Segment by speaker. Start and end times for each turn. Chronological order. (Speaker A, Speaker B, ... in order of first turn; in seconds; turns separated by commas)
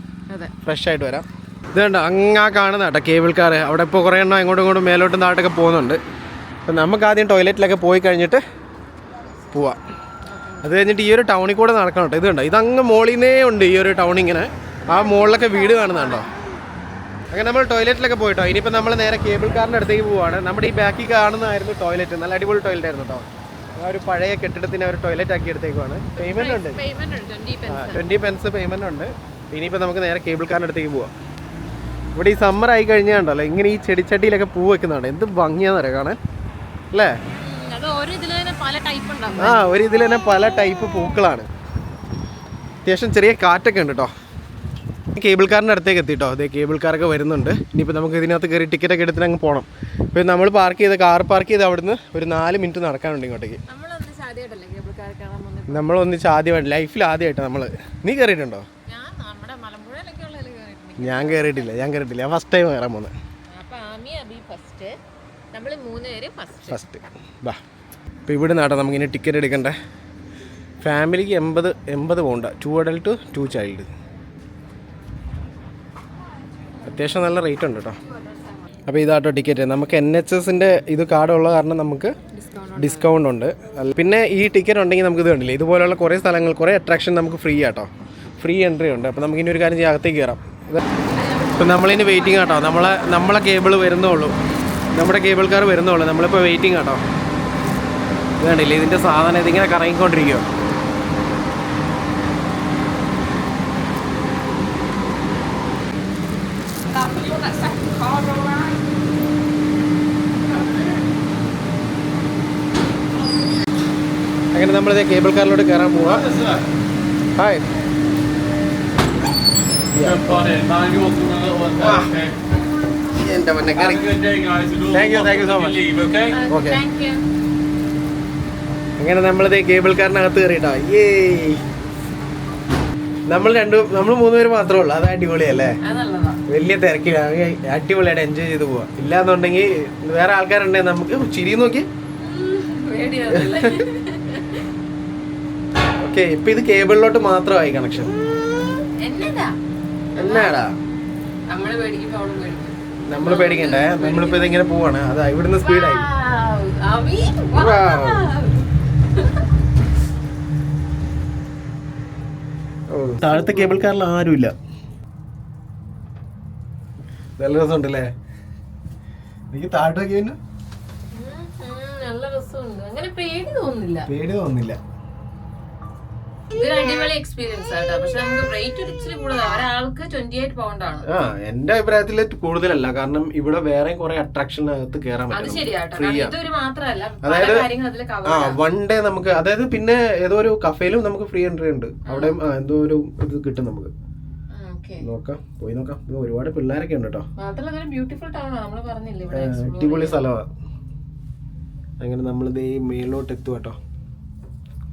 Speaker A: 0.6-6.0, Speaker A: 6.7-8.4, Speaker A: 9.5-9.8, Speaker B: 10.3-10.8, Speaker A: 10.6-16.3, Speaker B: 14.9-16.3, Speaker A: 17.3-23.3, Speaker A: 23.8-26.8, Speaker B: 26.1-28.0, Speaker A: 27.7-31.1, Speaker A: 32.2-36.2, Speaker B: 37.4-39.7, Speaker A: 39.4-41.5, Speaker A: 42.9-44.1, Speaker A: 45.1-53.6, Speaker B: 53.7-55.9, Speaker A: 55.7-58.7, Speaker B: 58.9-61.7, Speaker A: 61.0-63.1, Speaker B: 63.5-65.0, Speaker B: 65.5-66.8, Speaker A: 66.7-67.6, Speaker A: 68.3-69.8, Speaker A: 70.8-73.9, Speaker A: 76.8-78.0, Speaker B: 78.1-78.8, Speaker A: 78.9-82.2, Speaker B: 82.3-83.1, Speaker A: 82.8-90.8, Speaker B: 90.9-93.4, Speaker A: 91.6-94.4, Speaker A: 94.9-97.0, Speaker A: 98.4-100.5, Speaker B: 106.9-107.9, Speaker C: 110.5-110.8, Speaker A: 114.5-116.3, Speaker C: 116.1-116.6, Speaker A: 117.4-117.7, Speaker A: 119.9-120.3, Speaker C: 119.9-122.3, Speaker A: 121.8-122.2, Speaker A: 123.1-124.1, Speaker C: 123.8-126.4, Speaker A: 124.9-125.8, Speaker B: 126.3-127.2, Speaker A: 126.5-126.8, Speaker A: 129.0-131.6, Speaker A: 133.3-135.8, Speaker B: 135.8-136.4, Speaker A: 136.5-141.9, Speaker B: 142.2-144.7, Speaker A: 143.3-143.8, Speaker A: 146.0-148.2, Speaker B: 148.6-149.6, Speaker B: 150.2-150.6, Speaker A: 150.2-150.8, Speaker B: 151.5-154.5, Speaker A: 153.1-156.1, Speaker B: 155.6-159.4, Speaker A: 157.5-158.3, Speaker A: 162.9-164.5, Speaker B: 163.2-163.8, Speaker A: 167.4-168.1, Speaker A: 169.5-170.4, Speaker B: 171.1-174.1, Speaker A: 174.1-174.8, Speaker B: 176.5-181.1, Speaker A: 181.1-186.3, Speaker B: 185.3-188.6, Speaker A: 187.2-187.7, Speaker A: 188.2-193.9, Speaker B: 192.1-192.4, Speaker B: 194.5-195.1, Speaker A: 195.0-197.3, Speaker B: 197.4-200.2, Speaker A: 199.3-200.5, Speaker A: 202.0-203.8